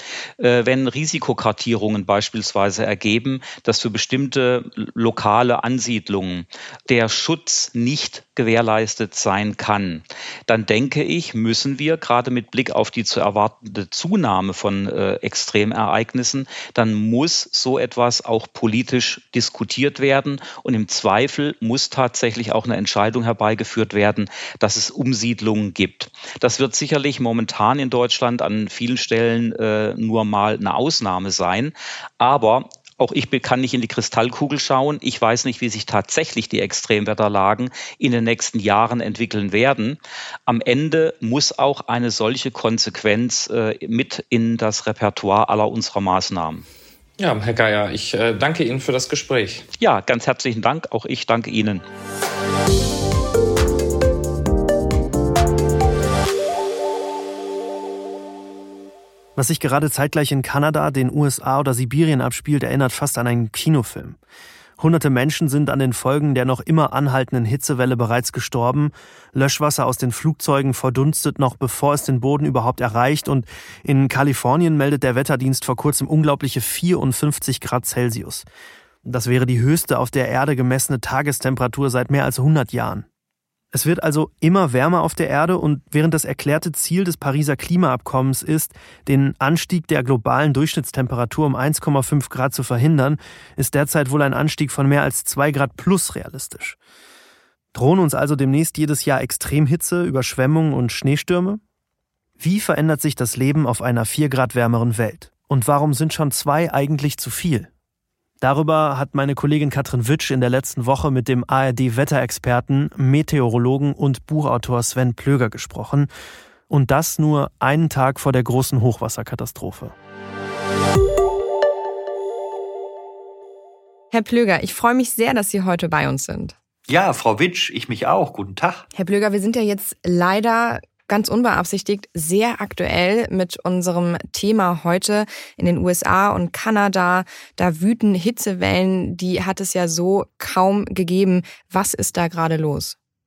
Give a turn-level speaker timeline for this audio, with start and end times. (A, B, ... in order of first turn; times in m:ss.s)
0:00.4-0:46.6 A
0:47.2-0:49.7 B
0:49.8-0:51.8 A
0:59.4-1:04.2 C
1:04.8-1:18.4 C
1:19.0-1:23.0 C
1:23.7-1:36.8 C
1:37.7-1:41.6 C
1:42.4-1:47.7 C
1:48.4-1:56.1 C
1:56.7-2:00.0 C
2:04.1-2:06.5 D
2:06.9-2:08.9 E
2:09.0-2:23.0 D